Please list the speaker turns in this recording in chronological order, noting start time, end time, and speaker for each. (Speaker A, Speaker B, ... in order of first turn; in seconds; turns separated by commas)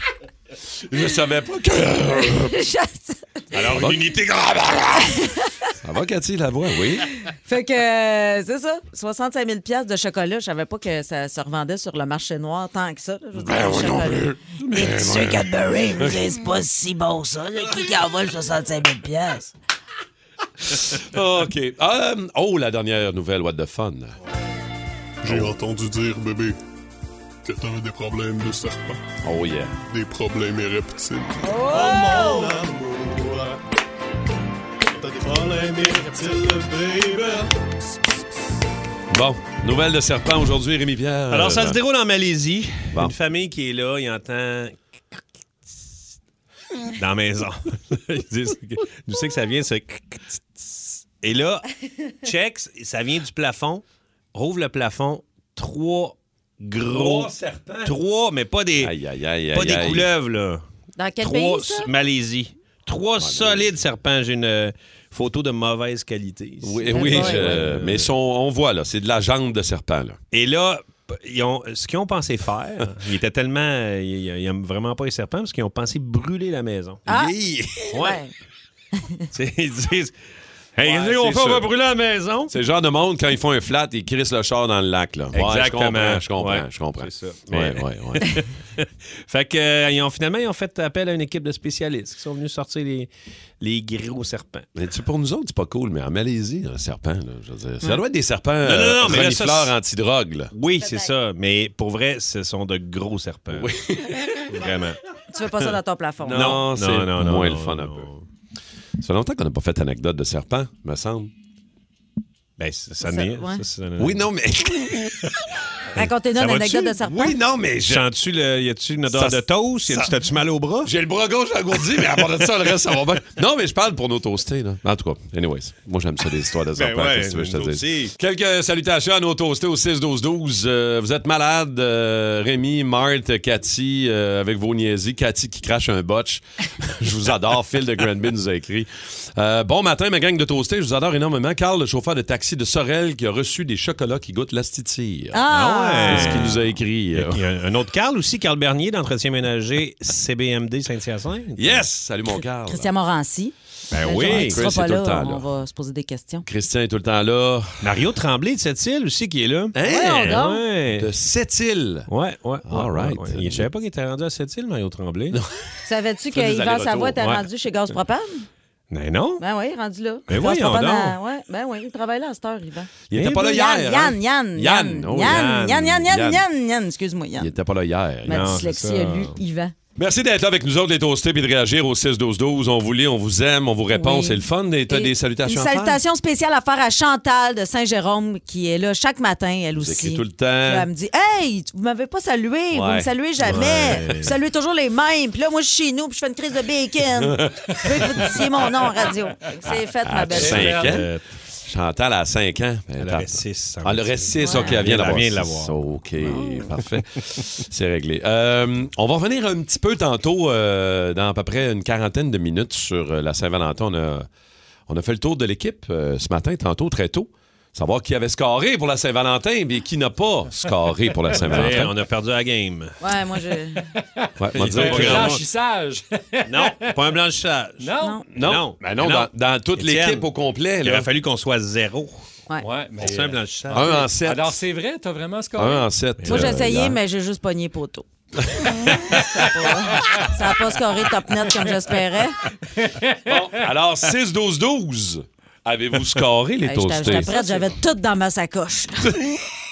Speaker A: 0.9-2.6, Speaker B: 2.4-3.4, Speaker C: 3.5-4.9, Speaker A: 3.7-4.1, Speaker B: 5.0-5.7, Speaker A: 5.8-7.0, Speaker B: 7.3-19.5, Speaker A: 13.4-16.3, Speaker A: 20.7-24.1, Speaker D: 25.2-26.6, Speaker A: 25.3-25.6, Speaker D: 27.4-29.0, Speaker A: 29.2-29.8, Speaker D: 29.9-33.3, Speaker B: 31.4-32.6, Speaker C: 31.8-32.4, Speaker C: 35.2-37.5, Speaker A: 39.1-41.8, Speaker C: 41.3-45.2, Speaker C: 47.0-51.7, Speaker C: 52.2-53.8, Speaker C: 54.3-57.3, Speaker A: 56.9-58.0, Speaker C: 57.8-58.9, Speaker A: 58.8-60.1, Speaker C: 59.5-60.6, Speaker B: 61.0-61.9, Speaker C: 61.2-68.1, Speaker A: 63.2-63.7, Speaker A: 66.6-70.2, Speaker B: 66.9-67.5, Speaker C: 70.3-78.2, Speaker B: 77.1-77.4, Speaker B: 78.0-78.3, Speaker C: 79.3-80.2, Speaker C: 80.8-82.5, Speaker A: 80.8-81.7, Speaker A: 82.5-88.4, Speaker C: 85.3-94.7, Speaker A: 94.8-100.5, Speaker C: 98.6-99.8, Speaker C: 100.5-103.7, Speaker B: 100.8-101.1, Speaker A: 103.5-104.6, Speaker C: 104.5-105.0, Speaker B: 105.3-106.7, Speaker A: 106.2-108.1, Speaker C: 106.3-108.2, Speaker A: 109.0-111.3, Speaker C: 112.6-114.3, Speaker B: 113.0-113.6, Speaker A: 114.0-115.3, Speaker B: 116.0-117.4, Speaker A: 116.4-118.1, Speaker C: 117.8-120.9, Speaker A: 119.1-120.2, Speaker A: 120.8-145.4, Speaker C: 126.8-128.1, Speaker B: 145.3-146.5, Speaker C: 145.5-146.6, Speaker A: 146.1-147.4, Speaker C: 147.2-151.8, Speaker A: 151.6-152.9, Speaker B: 152.3-156.4, Speaker C: 153.9-154.6, Speaker A: 154.2-155.4, Speaker A: 156.5-158.0, Speaker C: 157.8-161.1, Speaker A: 159.8-162.1, Speaker B: 159.9-160.6, Speaker C: 162.1-165.4, Speaker A: 162.7-163.7, Speaker B: 165.9-168.5, Speaker A: 166.3-167.2, Speaker C: 168.9-169.4, Speaker B: 169.4-177.5, Speaker C: 170.3-171.2, Speaker A: 173.1-176.4, Speaker C: 173.1-173.5, Speaker C: 175.2-176.0, Speaker A: 177.4-178.6, Speaker B: 178.2-179.7, Speaker C: 178.3-179.4, Speaker A: 180.0-186.0, Speaker B: 183.9-200.7, Speaker A: 189.8-190.9, Speaker A: 192.7-193.1, Speaker C: 193.4-194.4, Speaker A: 197.2-198.2, Speaker A: 200.1-214.3, Speaker C: 200.4-201.2, Speaker E: 200.4-201.0, Speaker C: 203.0-205.8, Speaker B: 204.4-204.7, Speaker B: 206.2-206.7, Speaker A: 214.9-221.9, Speaker C: 221.4-223.0, Speaker B: 223.0-223.8, Speaker E: 224.2-226.9, Speaker A: 224.4-225.4, Speaker C: 224.5-225.4, Speaker C: 226.5-230.3, Speaker E: 227.8-228.2, Speaker A: 228.3-231.1, Speaker C: 230.8-232.2, Speaker E: 232.6-235.9, Speaker C: 233.0-234.1, Speaker A: 233.7-234.5, Speaker A: 235.6-237.0, Speaker C: 236.2-236.6, Speaker B: 236.3-238.1, Speaker A: 238.5-239.2, Speaker B: 238.6-242.4, Speaker E: 242.8-243.5, Speaker A: 243.3-247.4, Speaker B: 246.7-249.2